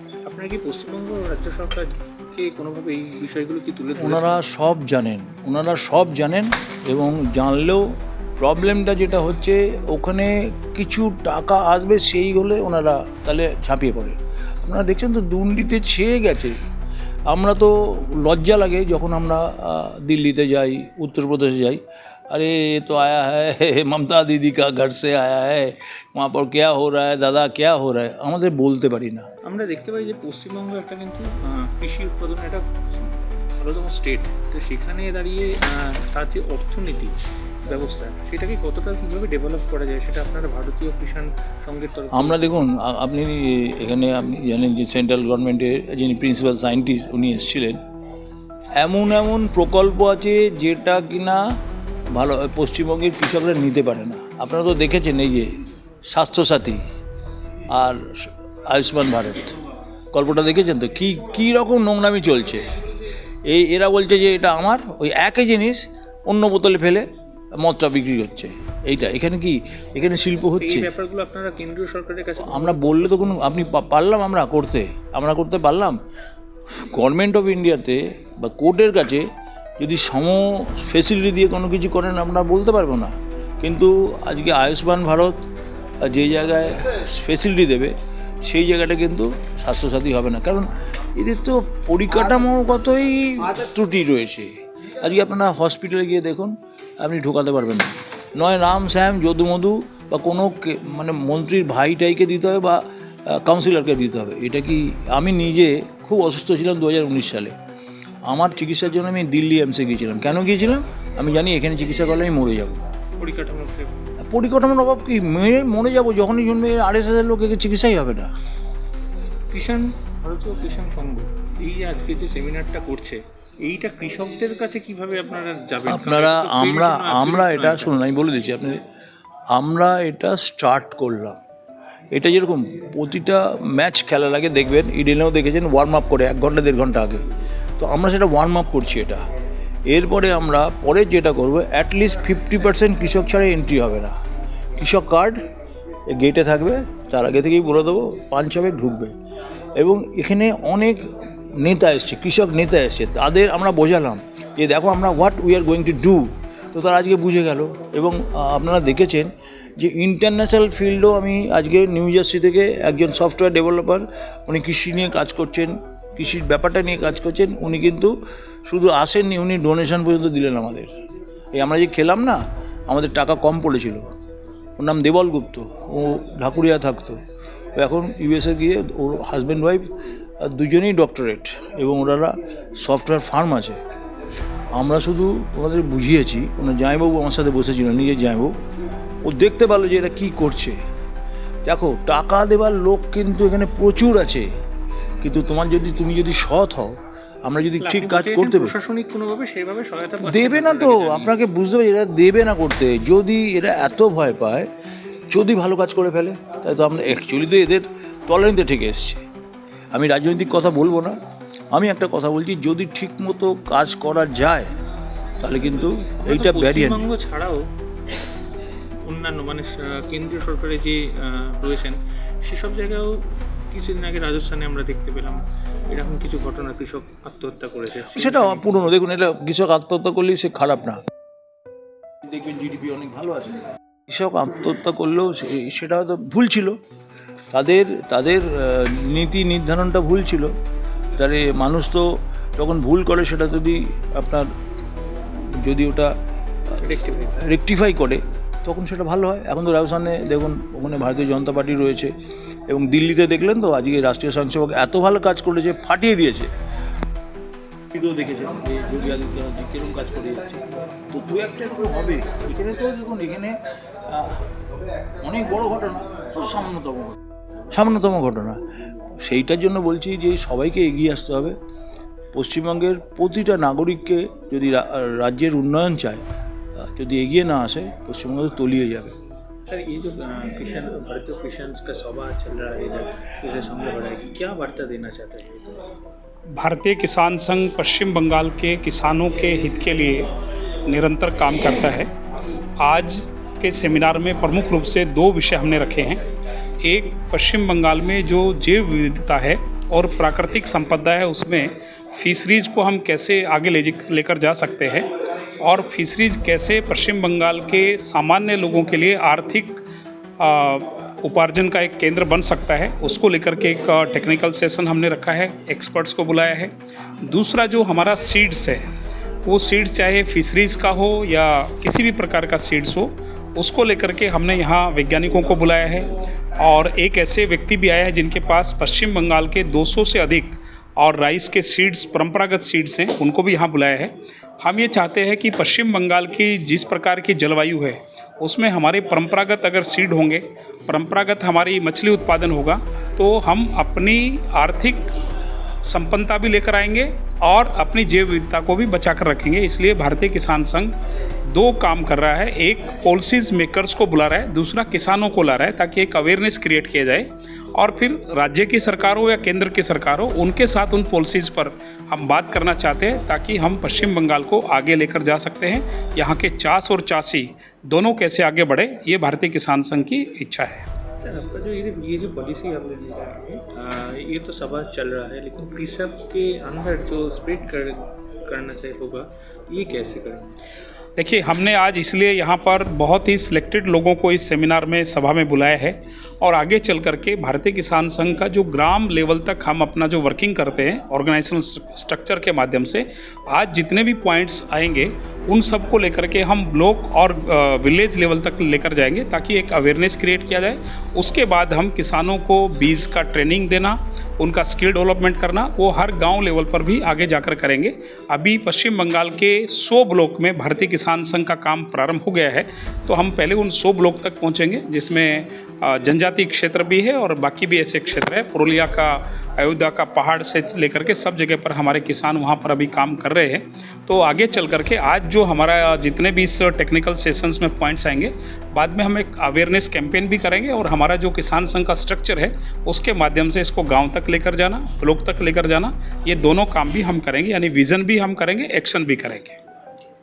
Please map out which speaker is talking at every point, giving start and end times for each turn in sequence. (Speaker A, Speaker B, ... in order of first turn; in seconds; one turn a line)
Speaker A: 0.2-4.4
Speaker B: 4.0-7.9
Speaker B: 8.4-16.5
Speaker B: 17.3-21.8
Speaker B: 22.3-29.3
Speaker A: 29.4-42.6
Speaker B: 42.1-47.8
Speaker B: 48.8-51.4
Speaker B: 52.1-55.5
Speaker B: 56.1-56.8
Speaker B: 57.7-59.6
Speaker B: 60.1-62.6
Speaker B: 63.5-67.0
Speaker B: 67.6-70.9
Speaker A: 70.6-73.5
Speaker B: 72.4-76.0
Speaker B: 76.9-79.3
Speaker B: 79.8-85.3
Speaker B: 86.0-87.9
Speaker B: 88.4-107.5
Speaker B: 108.2-112.8
Speaker A: 113.2-114.1
Speaker B: 114.2-118.3
Speaker A: 119.5-128.0
Speaker B: 125.9-128.8
Speaker B: 129.5-131.4
Speaker B: 132.1-137.2
Speaker B: 137.8-139.2
Speaker B: 139.9-144.1
Speaker B: 144.8-145.4
Speaker B: 146.1-149.1
Speaker B: 149.8-151.1
Speaker B: 151.6-168.1
Speaker B: 168.7-170.9
Speaker B: 171.5-174.1
Speaker B: 174.8-177.2
Speaker B: 177.8-179.9
Speaker B: 180.4-183.8
Speaker B: 184.7-188.5
Speaker B: 189.2-190.8
Speaker B: 191.7-194.5
Speaker B: 195.2-198.7
Speaker A: 197.8-201.3
Speaker B: 200.2-204.7
Speaker B: 205.3-209.2
Speaker B: 209.9-211.2
Speaker B: 211.7-214.7
Speaker B: 215.4-217.0
Speaker A: 216.2-217.6
Speaker A: 219.0-228.9
Speaker B: 228.1-231.0
Speaker B: 232.2-236.8
Speaker B: 237.5-240.5
Speaker B: 241.2-244.5
Speaker B: 245.6-246.1
Speaker B: 246.8-252.1
Speaker A: 246.8-247.4
Speaker B: 252.7-256.5
Speaker B: 257.9-263.6
Speaker B: 264.1-264.4
Speaker B: 265.2-267.2
Speaker B: 267.7-268.6
Speaker B: 269.2-271.6
Speaker B: 272.3-276.2
Speaker B: 276.8-279.1
Speaker A: 279.7-285.8
Speaker C: 286.6-290.3
Speaker C: 290.9-292.1
Speaker C: 292.8-296.2
Speaker C: 296.8-305.1
Speaker C: 305.6-309.8
Speaker C: 310.4-316.7
Speaker C: 317.2-318.8
Speaker C: 319.4-345.1
Speaker C: 345.8-350.9
Speaker C: 351.5-370.8
Speaker A: 371.2-380.5
Speaker C: 381.2-439.6